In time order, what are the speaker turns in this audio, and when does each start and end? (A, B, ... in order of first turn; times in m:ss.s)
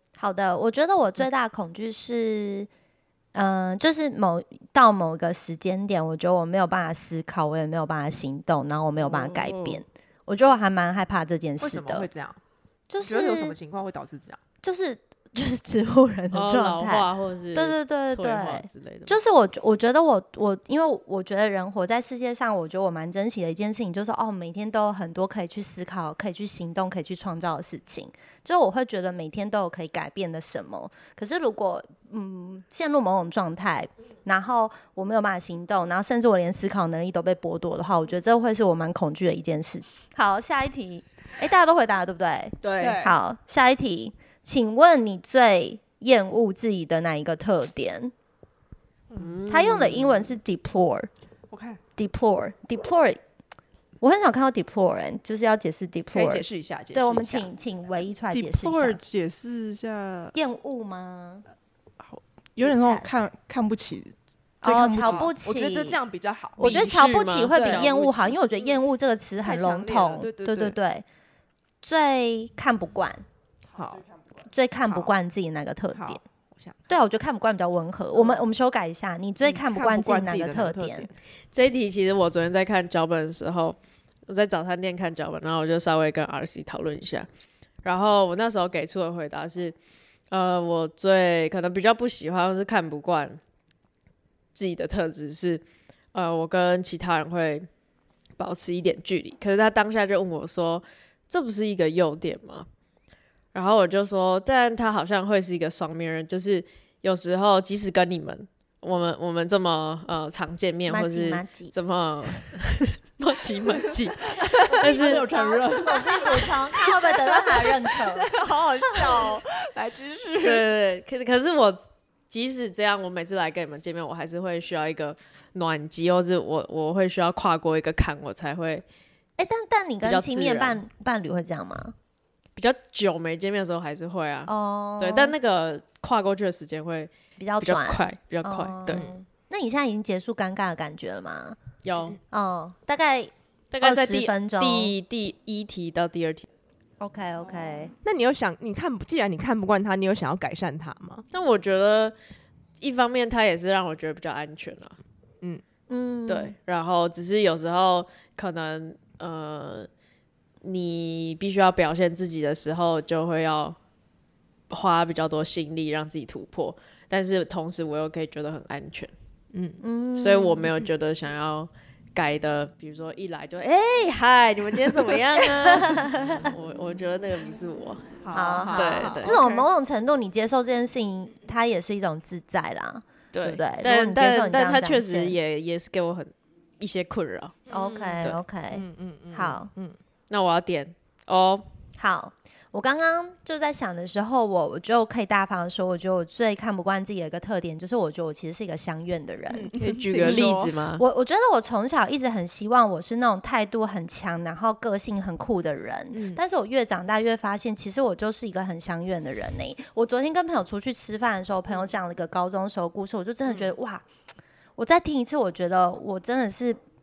0:00.2-0:02.7 A
0:03.3-0:12.1 A
0:09.0-0:09.8 B
0:11.6-0:12.4 C
0:12.9-0:13.5 A
0:13.0-0:14.4 C
0:14.6-0:48.1 A
0:16.3-0:19.2 B
0:42.6-0:43.0 B
0:42.8-0:43.1 C
0:49.2-0:50.2 B
0:49.5-0:51.1 A
0:51.5-0:51.8 C
0:52.0-0:53.2 A
0:54.0-0:59.0 A
0:56.1-0:57.5 C
0:58.3-1:00.3 D
1:00.3-1:01.4 A
1:02.0-1:05.3 D
1:02.6-1:03.1 A
1:04.6-1:06.0 A
1:05.0-1:06.8 C
1:06.6-1:11.0 A
1:06.6-1:08.2 B
1:07.5-1:08.3 C
1:09.4-1:10.8 C
1:11.8-1:13.2 A
1:13.7-1:14.0 C
1:14.4-1:16.2 A
1:15.9-1:16.8 C
1:16.9-1:21.1 A
1:18.1-1:18.4 C
1:19.4-1:21.1 C
1:21.5-1:23.8 B
1:24.3-1:27.3 B
1:27.8-1:29.8 B
1:30.3-1:33.4 B
1:34.5-1:35.6 B
1:36.1-1:37.7 B
1:38.4-1:42.7 B
1:43.5-1:55.2 B
1:50.9-1:51.7 A
1:54.7-1:58.3 A
1:54.9-1:56.3 D
1:56.1-2:00.6 C
1:58.9-1:59.3 A
2:00.4-2:08.8 B
2:09.4-2:11.9 A
2:10.0-2:10.8 B
2:12.6-2:19.1 B
2:14.5-2:15.3 A
2:17.4-2:21.6 A
2:21.8-2:22.2 B
2:22.3-2:24.9 A
2:23.7-2:26.5 B
2:27.0-2:27.9 A
2:28.0-2:31.2 C
2:31.3-2:32.1 B
2:32.8-2:35.0 B
2:35.9-2:36.5 A
2:36.3-2:39.9 B
2:40.6-2:43.8 B
2:44.7-2:49.1 B
2:49.5-2:49.8 C
2:49.8-2:50.7 A
2:50.2-2:59.3 B
2:55.8-2:56.2 A
2:58.2-2:59.7 C
2:58.3-3:05.4 A
3:03.3-3:07.7 B
3:07.7-3:08.2 C
3:07.7-3:09.7 A
3:08.7-3:10.0 C
3:10.3-3:11.6 B
3:12.0-3:34.0 A
3:19.5-3:20.7 C
3:19.8-3:21.0 B
3:26.1-3:26.4 C
3:33.4-3:33.7 C
3:34.8-3:36.8 A